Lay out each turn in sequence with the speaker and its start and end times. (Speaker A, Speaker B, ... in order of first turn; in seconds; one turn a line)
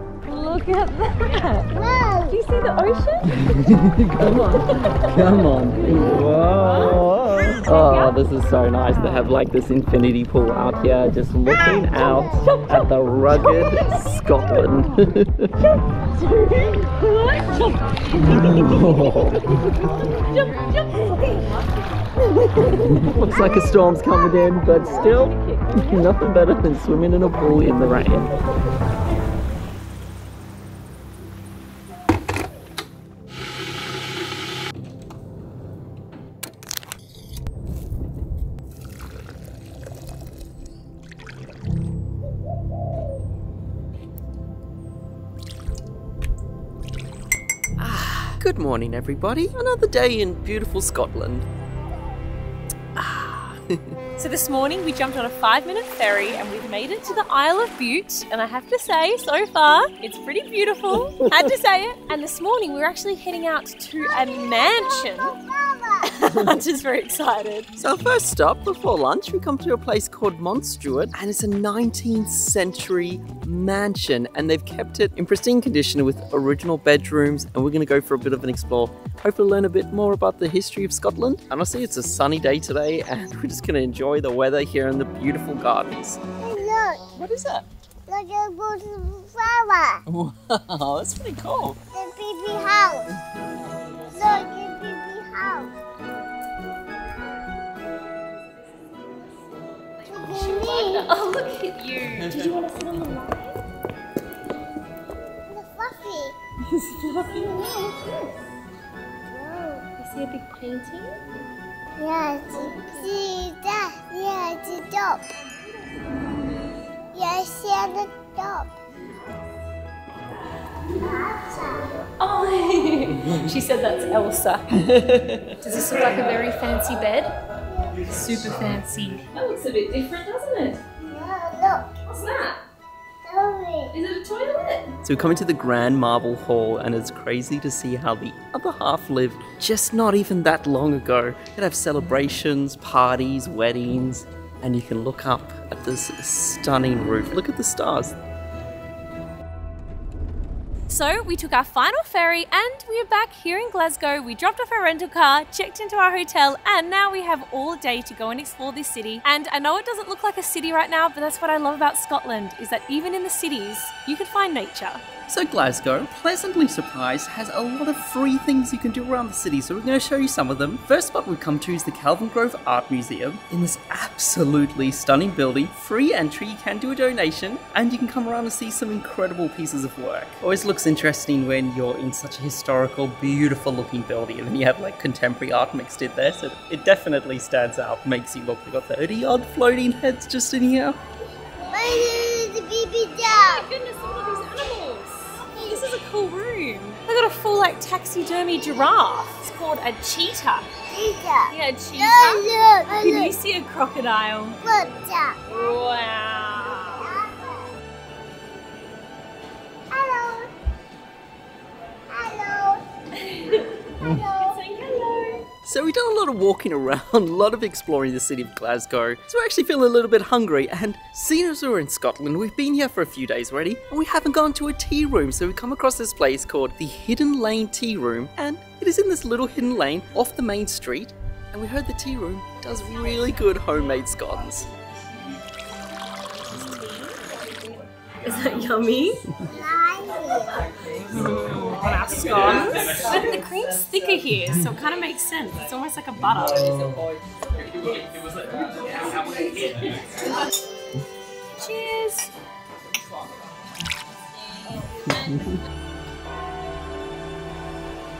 Speaker A: 0.2-1.8
Speaker B: 1.7-2.4
Speaker A: 2.3-3.6
Speaker C: 3.4-15.5
Speaker A: 4.2-8.2
Speaker B: 11.5-12.4
Speaker A: 12.2-13.9
Speaker A: 15.6-22.1
Speaker C: 18.2-19.4
Speaker C: 22.2-28.3
Speaker A: 22.7-23.4
Speaker A: 24.0-26.1
Speaker C: 47.8-51.5
Speaker C: 52.9-54.0
Speaker A: 54.1-65.3
Speaker B: 64.0-66.2
Speaker A: 66.0-67.7
Speaker C: 67.8-86.2
Speaker B: 86.4-87.1
Speaker C: 87.2-87.7
Speaker B: 88.1-90.0
Speaker C: 90.0-91.8
Speaker B: 91.9-93.1
Speaker C: 93.1-94.1
Speaker B: 94.1-95.8
Speaker A: 100.0-103.6
Speaker B: 100.1-101.1
Speaker C: 102.1-102.8
Speaker B: 105.5-106.3
Speaker A: 106.7-107.5
Speaker B: 107.2-108.2
Speaker B: 109.3-109.8
Speaker A: 110.0-111.2
Speaker B: 112.0-115.2
Speaker A: 112.6-113.0
Speaker B: 117.1-118.7
Speaker B: 121.0-121.9
Speaker A: 122.2-124.6
Speaker C: 125.0-125.4
Speaker A: 125.6-127.3
Speaker B: 127.7-128.1
Speaker A: 128.0-130.8
Speaker B: 131.0-132.0
Speaker A: 132.1-132.6
Speaker B: 133.2-133.9
Speaker A: 133.9-134.9
Speaker C: 135.0-148.2
Speaker A: 150.9-165.0
Speaker C: 165.3-191.0
Speaker B: 191.7-193.7
Speaker A: 193.2-200.7
Speaker B: 195.4-195.9
Speaker B: 200.9-203.4
Speaker A: 201.5-204.6
Speaker B: 204.6-205.8
Speaker A: 205.5-207.2
Speaker B: 206.7-207.7
Speaker B: 209.9-210.5
Speaker B: 212.1-212.8
Speaker A: 213.1-215.4
Speaker B: 214.0-214.6
Speaker C: 215.6-234.7
Speaker A: 236.5-239.2
Speaker B: 239.4-240.6
Speaker C: 241.1-241.5
Speaker A: 241.1-246.7
Speaker C: 242.4-243.1
Speaker C: 246.4-250.0
Speaker A: 251.6-252.3